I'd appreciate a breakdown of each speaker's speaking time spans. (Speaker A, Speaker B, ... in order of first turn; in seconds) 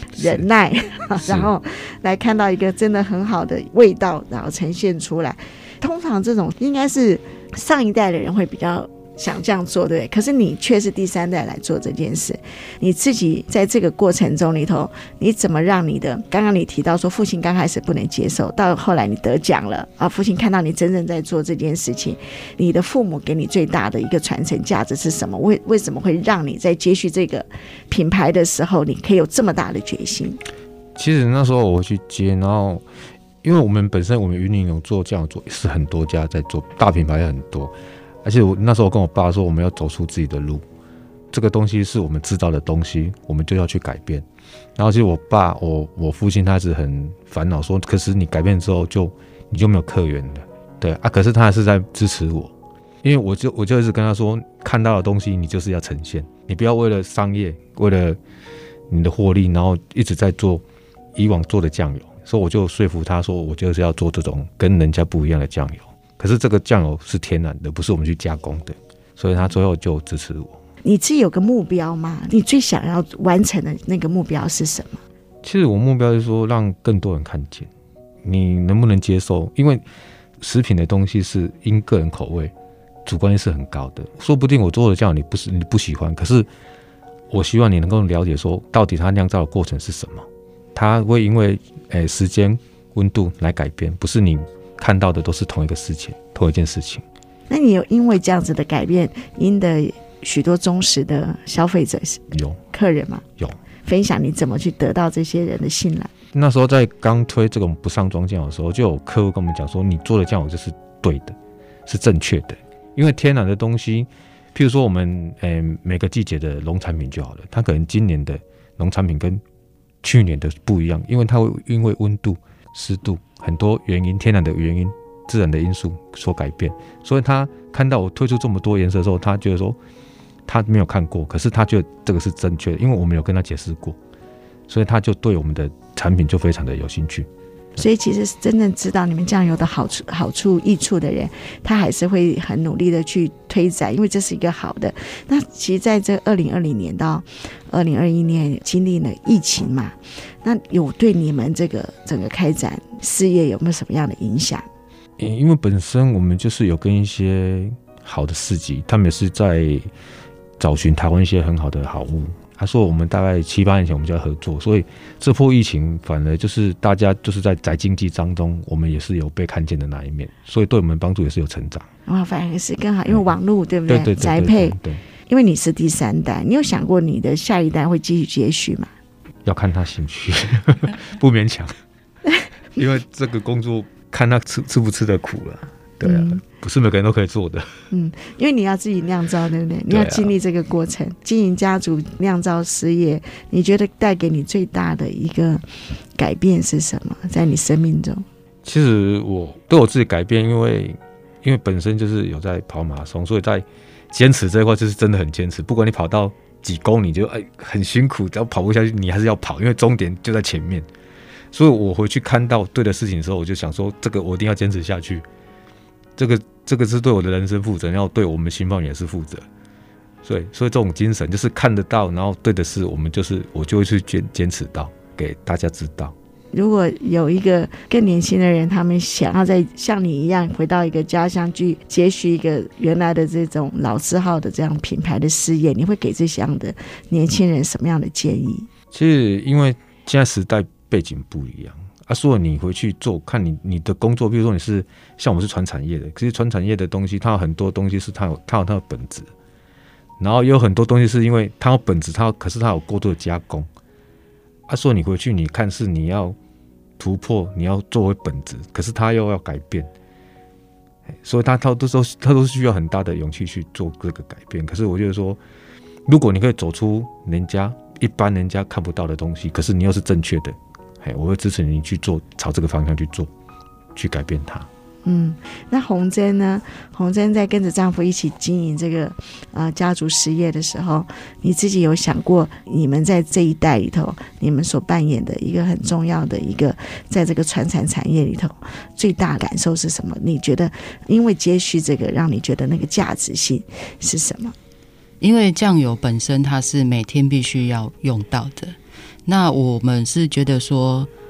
Speaker A: 0.2-0.5, 1.2-1.5, 30.9-32.8, 33.4-37.7, 38.2-40.6, 41.3-44.3, 44.8-52.5, 53.0-58.2, 58.9-60.6, 61.1-70.6, 75.4-77.7, 78.2-79.8, 80.4-82.5, 83.1-86.5, 87.3-97.0, 102.3-102.6, 106.3-119.4, 120.0-129.8, 130.5-134.0, 134.7-137.3, 155.2-159.9, 160.6-171.9, 173.9-175.0, 179.4-181.7, 182.8-187.8, 189.9-190.3, 198.6-210.9, 211.5-215.2, 216.2-219.5, 220.2-226.2, 238.9-249.3, 250.2-253.7, 254.7-256.4, 257.0-259.9, 261.2-265.4, 266.1-273.3, 273.9-274.7
Speaker B: 0.2-30.4, 70.8-75.0, 97.5-103.2, 103.8-106.1, 137.8-154.7, 172.1-178.9, 186.0-186.4, 187.9-195.6, 196.2-198.2, 226.5-238.7, 275.1-294.6
Speaker C: 295.2-301.1